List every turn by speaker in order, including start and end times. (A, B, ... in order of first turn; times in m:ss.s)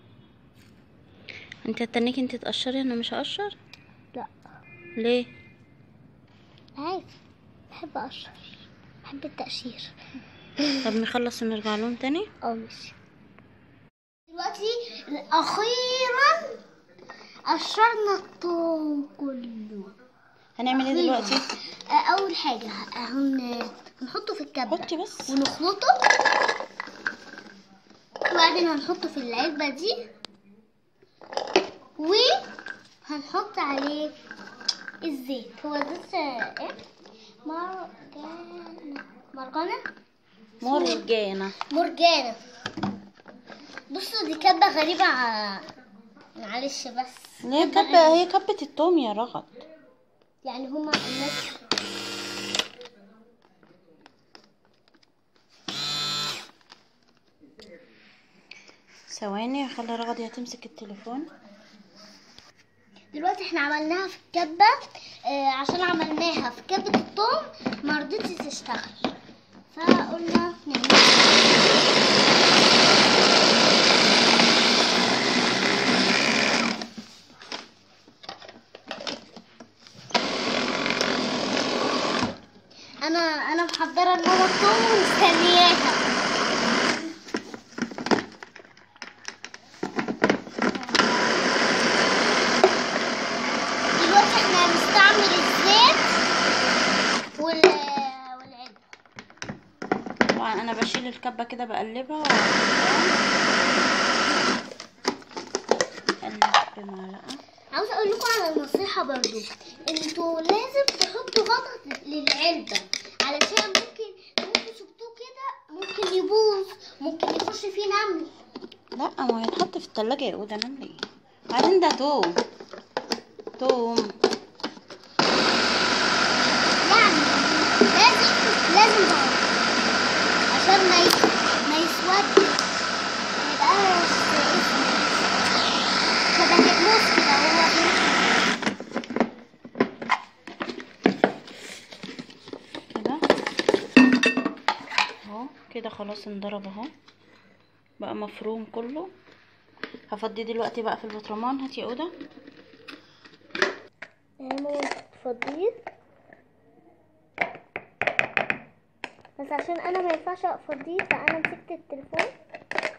0:01.6-0:03.6 A
0:05.0-0:05.3 A
0:06.8-0:07.1 B
0:07.7-0:08.3 B
0:09.0-0:09.9 B
0:10.6-0:10.9 B
0:10.8-0:12.3 A
0:12.4-0:12.9 B
0:14.3-0:16.6 B
0:17.5-0:19.9 B
0:20.6-0:21.4 A
0:20.7-0:26.0 B
0:24.7-0:25.3 A
0:28.2-0:30.0 B
0:32.0-0:32.5 B
0:33.0-0:34.1 B
0:35.0-0:36.8 B
0:37.4-0:39.8 B
0:40.6-0:41.0 B
0:40.6-0:41.6 A
0:41.6-0:42.4 B
0:43.9-0:45.6 B
0:46.4-0:48.2 B
0:47.4-0:49.5 A
0:50.4-0:51.6 B
0:59.1-1:01.3 A
1:03.1-1:04.7 B
1:05.3-1:09.1 B
1:09.7-1:11.5 B
1:23.0-1:26.0 B
1:33.9-1:36.2 B
1:37.4-1:38.8 B
1:40.4-1:43.2 A
1:46.2-1:47.4 A
1:47.7-1:58.3 B
1:59.0-2:02.4 A
2:03.6-2:04.1 A
2:06.8-2:09.5 B
2:10.5-2:12.7 B
2:13.4-2:15.3 B
2:16.3-2:18.4 B
2:22.9-2:23.2 A
2:25.2-2:26.9 A
2:28.0-2:29.1 A
2:30.1-2:32.1 A
2:34.4-2:35.7 B
2:39.4-2:42.3 B